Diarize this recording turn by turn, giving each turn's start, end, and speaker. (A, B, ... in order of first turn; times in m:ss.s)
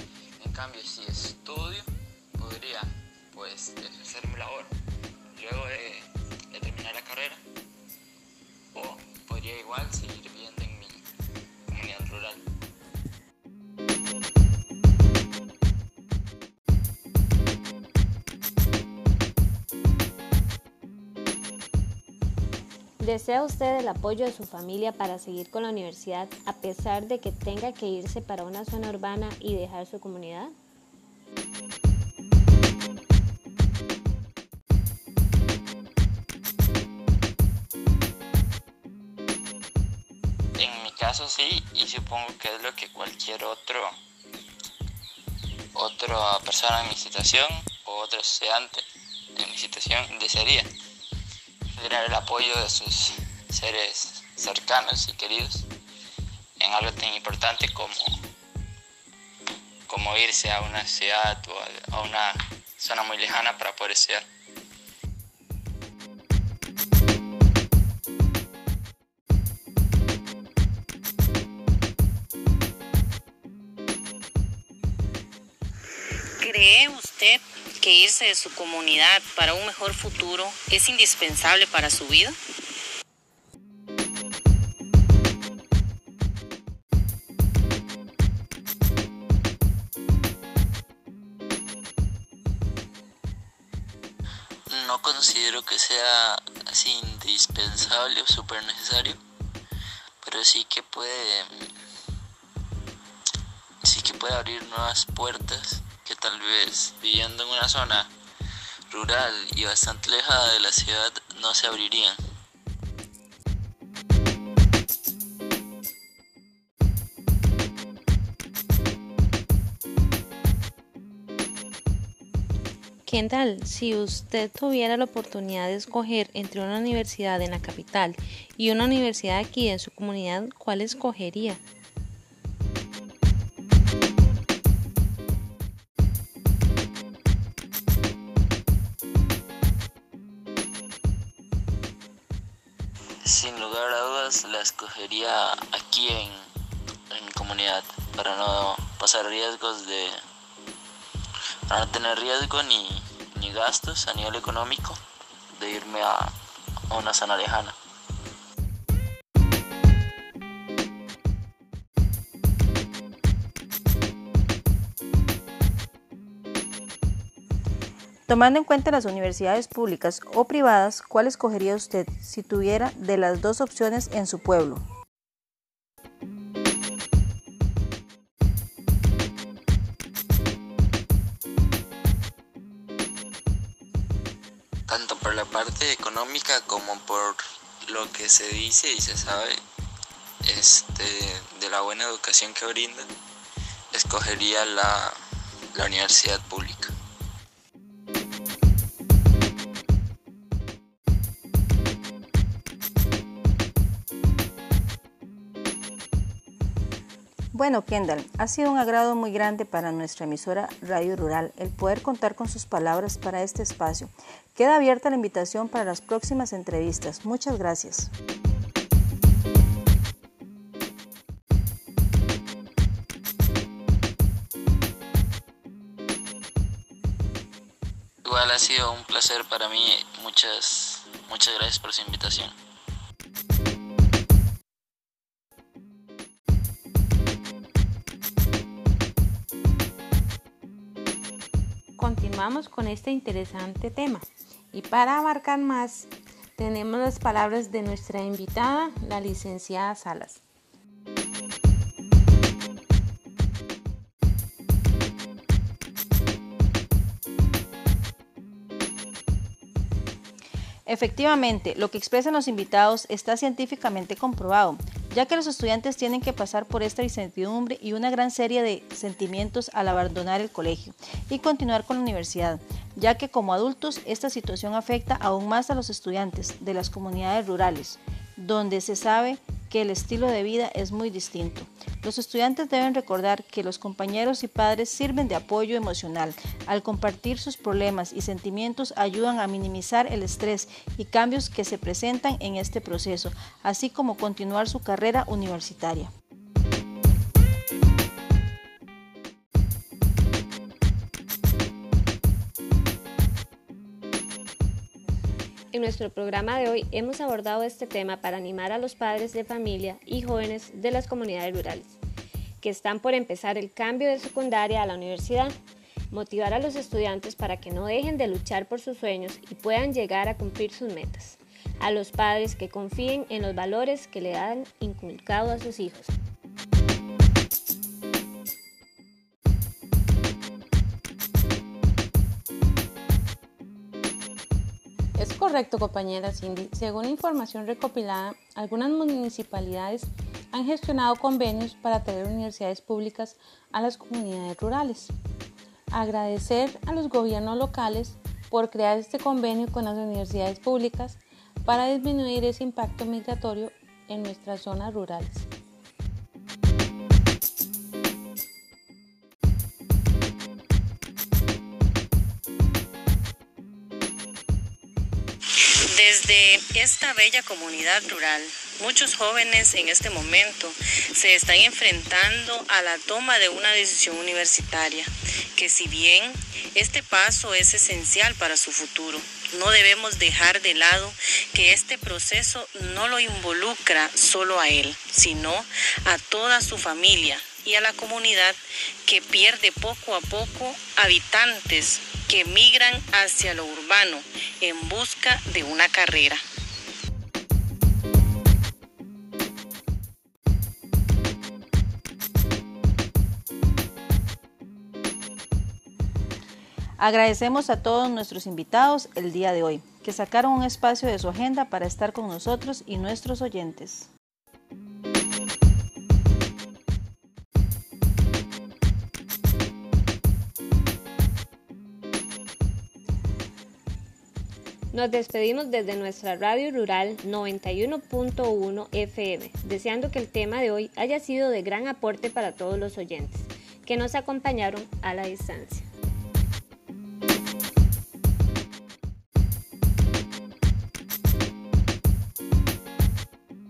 0:00.4-0:04.7 A
0:05.3-0:07.4 A
0:08.7-0:11.0 A
0:11.7-0:12.4 A
0:23.0-0:30.5 B
0:40.6-0:44.0 A
0:45.7-0:48.8 A
0:49.4-0:50.7 A
0:51.8-0:55.7 A
0:56.6-0:58.2 A
0:59.9-1:04.2 A
1:16.4-1:22.3 C
1:34.7-1:39.2 A
1:40.2-1:41.5 A
1:43.8-1:48.1 A
1:48.9-1:52.2 A
2:03.0-2:11.6 D
2:23.2-2:26.5 A
2:27.1-2:30.2 A
2:31.7-2:35.0 A
2:35.5-2:36.3 A
2:36.9-2:37.8 A
2:48.3-2:54.8 E
3:04.9-3:09.6 A
3:10.4-3:13.1 A
3:13.9-3:15.2 A
3:15.7-3:16.9 A
3:27.5-3:38.1 E
3:48.2-3:52.5 A
4:02.0-4:10.4 D
4:20.8-4:56.1 E
5:05.7-5:12.0 B
5:12.6-5:15.5 B
5:16.1-5:26.1 B
5:35.2-5:45.1 D
5:45.9-5:55.4 D
6:05.9-6:36.4 C
6:47.0-6:54.1 E
7:04.9-7:15.9 B